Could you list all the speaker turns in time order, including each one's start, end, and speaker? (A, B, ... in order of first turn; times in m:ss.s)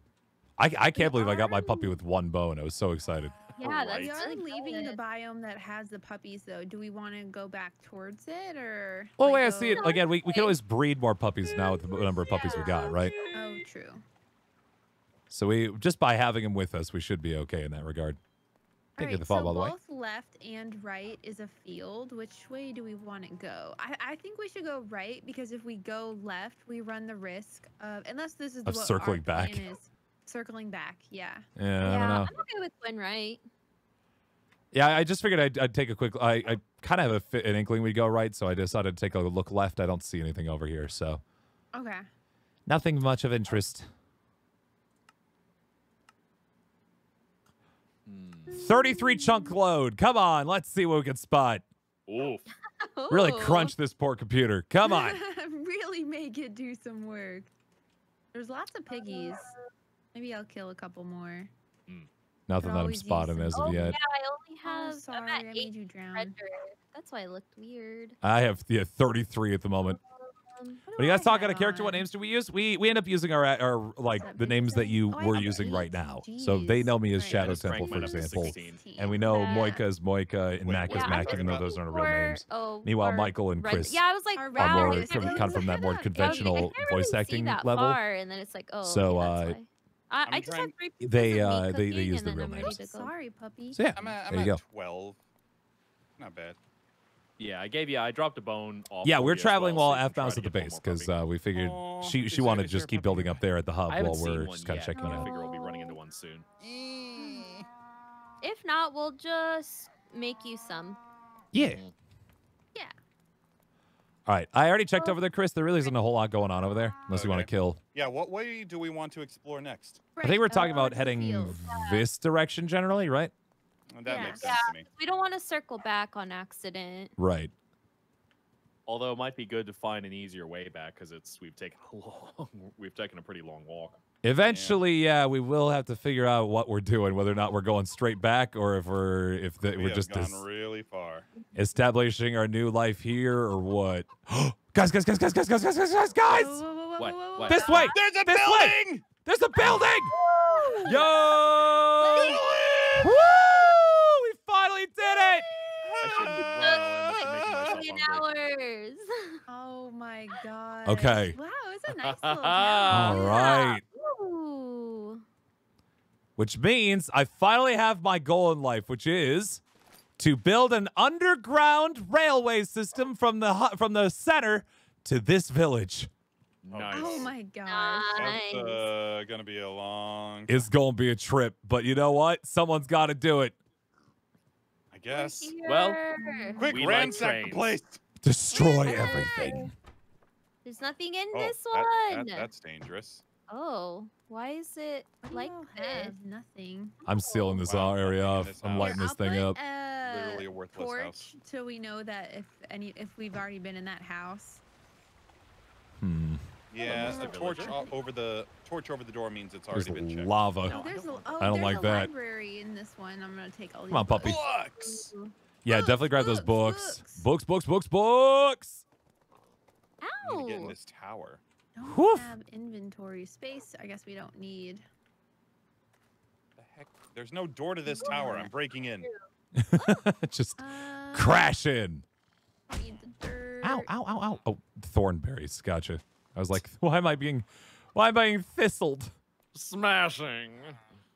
0:00.6-0:03.4 A
0:01.0-0:02.0 B
0:03.6-0:05.0 C
0:03.6-0:04.2 D
0:03.9-0:10.0 B
0:09.2-0:13.2 A
0:09.7-0:10.6 C
0:12.3-0:13.0 C
0:12.4-0:14.0 B
0:15.3-0:18.2 A
0:19.0-0:31.5 B
0:19.0-0:19.8 A
0:28.6-0:29.7 A
0:31.6-0:32.3 A
0:31.8-0:33.4 C
0:34.7-0:41.2 A
0:41.7-0:42.0 B
0:42.7-0:43.9 A
0:48.1-0:48.6 D
0:48.5-0:49.5 B
0:48.6-0:51.6 A
0:52.1-0:52.5 D
0:52.8-0:53.8 C
0:53.1-0:55.2 A
0:54.8-0:57.5 B
0:58.3-0:59.5 B
0:59.0-0:59.5 C
1:00.1-1:01.5 B
1:02.5-1:04.0 A
1:02.6-1:04.0 B
1:03.5-1:08.2 C
1:04.6-1:06.3 B
1:08.2-1:10.0 A
1:09.9-1:10.8 C
1:10.9-1:12.1 B
1:11.0-1:24.0 A
1:14.2-1:19.8 B
1:17.3-1:18.8 D
1:19.2-1:19.8 C
1:20.6-1:21.7 E
1:20.9-1:33.1 C
1:24.4-1:26.7 B
1:24.6-1:28.0 A
1:28.8-1:29.6 A
1:30.3-1:30.7 E
1:31.0-1:32.8 A
1:32.6-1:33.8 B
1:33.7-1:34.6 A
1:33.9-1:35.2 E
1:36.2-1:36.6 E
1:37.4-1:41.1 D
1:39.0-1:45.3 A
1:41.5-1:43.4 E
1:43.9-1:46.5 D
1:45.0-1:46.0 C
1:46.6-1:47.7 E
1:48.4-1:51.0 C
1:51.5-1:51.8 A
1:51.6-1:51.9 D
1:54.3-1:57.8 A
1:57.1-2:00.0 E
2:00.2-2:01.6 B
2:00.2-2:03.3 A
2:01.7-2:02.0 C
2:03.9-2:04.8 E
2:04.0-2:04.4 B
2:04.1-2:07.1 C
2:07.2-2:07.5 A
2:08.9-2:14.0 D
2:14.2-2:20.4 A
2:14.4-2:14.8 E
2:19.6-2:21.3 E
2:21.6-2:26.6 A
2:26.3-2:28.0 B
2:27.0-2:27.9 D
2:27.5-2:30.1 A
2:27.6-2:27.9 C
2:27.8-2:29.1 E
2:29.6-2:29.9 E
2:30.1-2:31.1 C
2:30.1-2:31.1 B
2:30.8-2:32.4 D
2:32.0-2:33.1 B
2:32.1-2:33.3 E
2:33.0-2:35.5 A
2:35.0-2:35.9 B
2:35.8-2:37.8 E
2:36.0-2:38.3 D
2:36.4-2:36.8 C
2:37.6-2:39.4 C
2:39.5-2:43.6 B
2:40.8-2:41.4 A
2:41.9-2:43.2 D
2:42.8-2:45.2 C
2:42.9-2:43.8 A
2:46.4-2:49.6 A
2:50.2-2:56.1 A
2:56.6-2:57.3 D
2:56.7-2:57.3 E
2:56.9-2:58.6 B
2:57.7-2:58.8 C
2:58.1-3:00.6 E
3:00.5-3:03.6 A
3:04.9-3:05.6 E
3:05.1-3:06.7 C
3:05.6-3:06.0 D
3:06.2-3:06.8 B
3:06.6-3:08.0 E
3:06.6-3:07.7 D
3:08.2-3:09.7 A
3:08.5-3:09.7 C
3:10.6-3:12.5 C
3:11.3-3:13.2 E
3:13.5-3:16.2 C
3:15.2-3:17.0 B
3:17.0-3:19.6 A
3:17.1-3:17.6 C
3:17.6-3:19.0 E
3:18.8-3:24.6 B
3:20.0-3:21.3 E
3:26.0-3:26.5 A
3:26.7-3:30.3 E
3:26.8-3:27.9 B
3:26.8-3:27.8 D
3:29.7-3:30.8 A
3:30.6-3:31.7 D
3:30.7-3:34.4 B
3:31.4-3:32.1 A
3:33.9-3:34.4 A
3:34.2-3:35.1 E
3:34.8-3:35.3 C
3:35.6-3:38.8 A
3:35.7-3:37.3 B
3:40.0-3:40.8 C
3:40.2-3:41.4 E
3:41.8-3:44.8 B
3:41.8-3:42.3 A
3:46.6-3:49.1 E
3:47.9-3:48.5 B
3:48.0-3:48.5 C
3:49.0-3:49.3 C
3:49.5-3:52.0 A
3:49.8-3:50.0 C
3:50.6-3:51.5 B
3:52.7-3:53.9 B
3:53.6-3:59.2 A
3:59.5-4:00.8 D